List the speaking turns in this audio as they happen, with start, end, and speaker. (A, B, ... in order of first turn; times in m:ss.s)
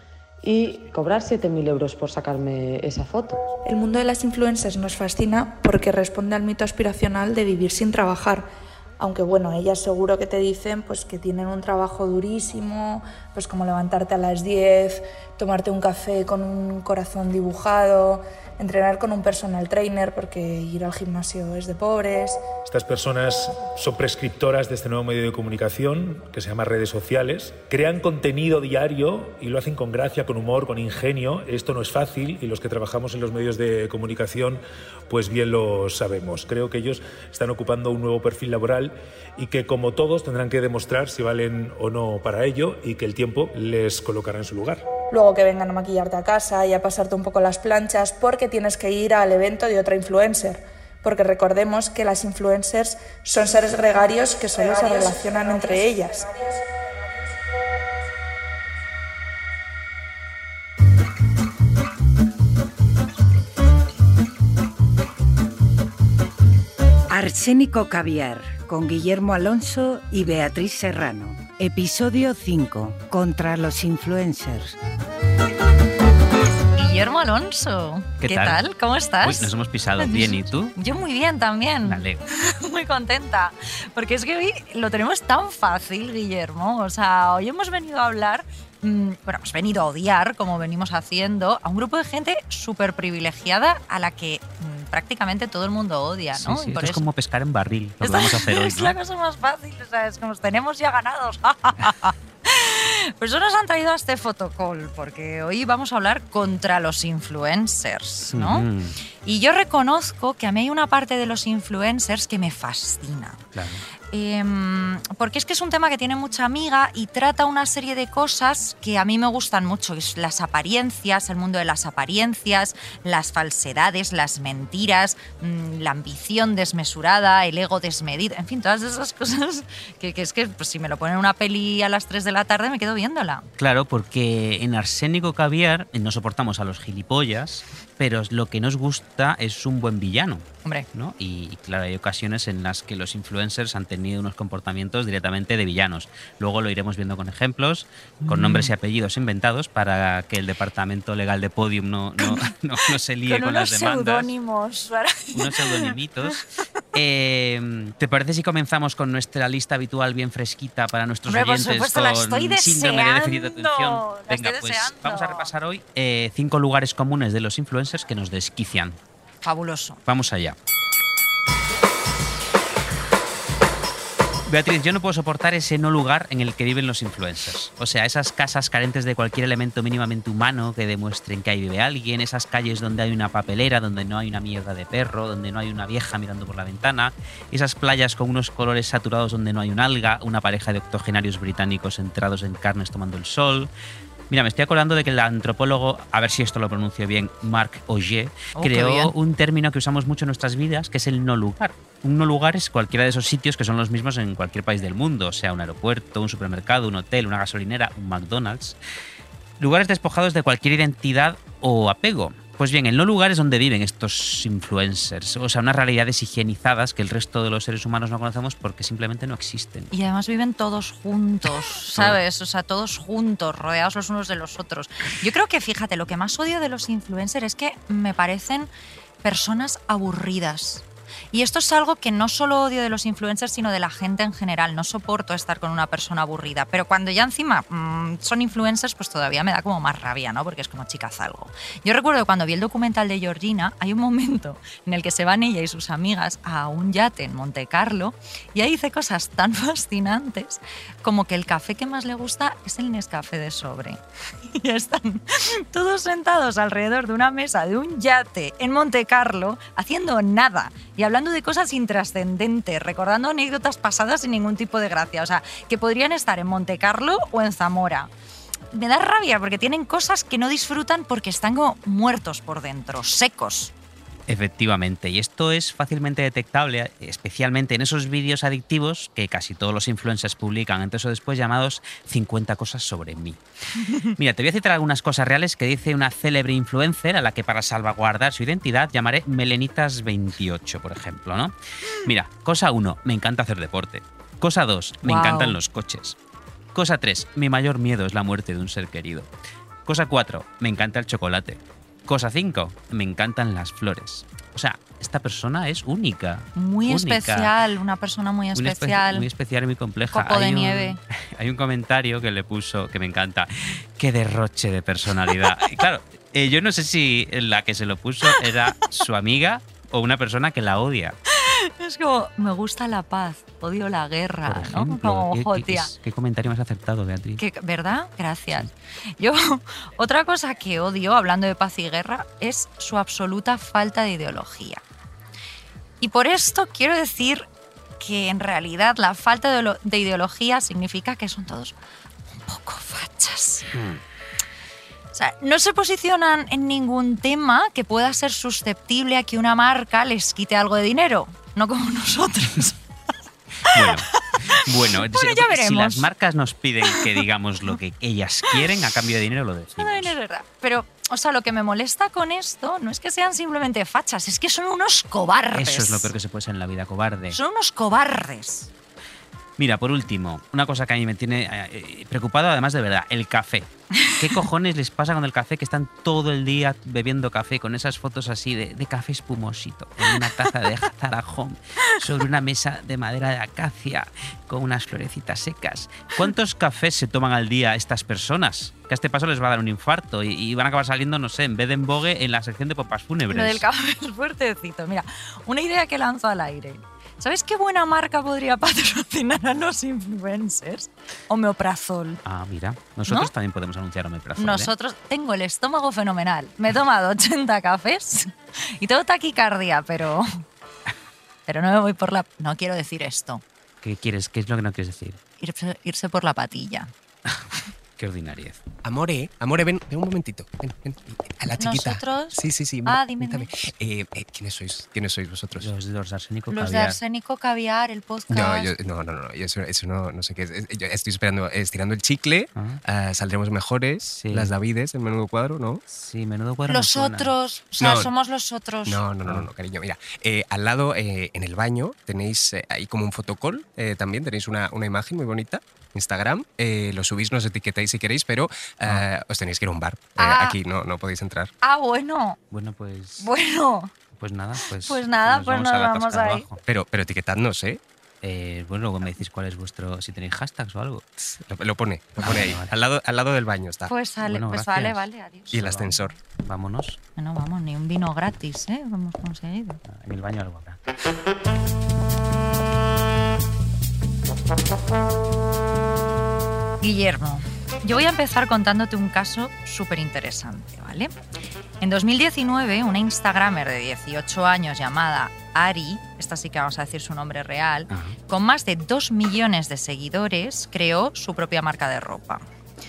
0:00.4-0:03.4 A
0:03.6-0:08.5 B
0:09.0-0:22.4 B
0:22.7-0:44.8 C
0:45.1-0:56.6 B
1:07.1-1:14.8 D
1:16.8-1:37.0 E
1:18.2-1:18.6 F
1:19.2-1:20.7 F
1:21.8-1:22.2 F
1:36.4-1:39.0 F
1:38.0-1:48.7 E
1:48.3-1:49.0 F
1:49.2-1:53.4 E
1:53.5-1:53.8 F
1:54.1-2:13.5 E
2:13.6-2:34.3 F
2:28.2-2:28.7 E
2:32.2-2:32.5 E
2:33.3-2:36.4 E
2:35.3-2:36.4 F
2:36.9-2:49.0 F
2:41.3-2:45.5 E
2:49.4-2:50.0 E
2:50.1-2:50.6 F
2:54.5-3:13.7 F
3:14.3-3:28.8 F
3:18.6-3:19.1 E
3:29.6-3:39.9 F
3:39.9-3:48.7 E
3:49.2-4:28.1 E
4:28.7-4:33.7 E
4:34.3-4:43.4 F
4:43.8-4:44.1 E
4:44.2-4:56.2 F
4:55.0-4:55.6 E
4:56.8-4:59.3 F
4:59.9-5:07.5 F
5:06.6-5:09.2 E
5:08.6-5:21.2 F
5:10.1-5:11.0 E
5:18.3-5:18.6 E
5:21.3-5:25.9 E
5:24.5-5:27.4 F
5:27.4-5:34.8 E
5:36.0-5:37.4 E
5:38.0-5:41.8 E
5:42.3-5:43.7 E
5:43.7-5:44.0 F
5:45.1-5:52.8 E
5:53.6-6:00.2 F
5:53.7-5:56.0 E
5:56.9-5:57.2 E
5:59.8-6:06.1 E
6:05.6-6:07.4 F
6:07.3-6:08.7 E
6:09.6-6:33.6 F
6:33.3-6:42.2 E
6:42.2-6:44.7 F
6:44.4-6:50.4 E
6:51.5-6:53.4 E
6:53.8-6:55.2 F
6:55.4-6:56.9 E
6:58.0-6:58.6 F
6:58.8-7:05.7 G
7:01.6-7:03.5 E
7:05.6-7:07.0 F
7:06.5-7:08.7 E
7:08.3-7:15.8 G
7:14.1-7:14.5 F
7:15.9-7:18.1 F
7:16.7-7:19.0 E
7:18.9-7:31.5 G
7:30.2-7:30.6 E
7:31.6-7:32.4 E
7:32.5-7:33.3 F
7:33.2-7:33.9 E
7:34.2-7:36.6 F
7:34.8-7:36.5 E
7:36.7-7:37.8 G
7:38.2-7:41.1 F
7:41.4-7:43.9 G
7:42.2-7:42.7 F
7:43.9-7:46.1 E
7:44.2-7:45.0 F
7:45.5-7:46.1 G
7:45.5-7:47.0 F
7:47.2-7:49.8 E
7:49.9-7:50.8 F
7:56.8-8:01.1 E
8:01.8-8:12.4 E
8:07.9-8:08.2 F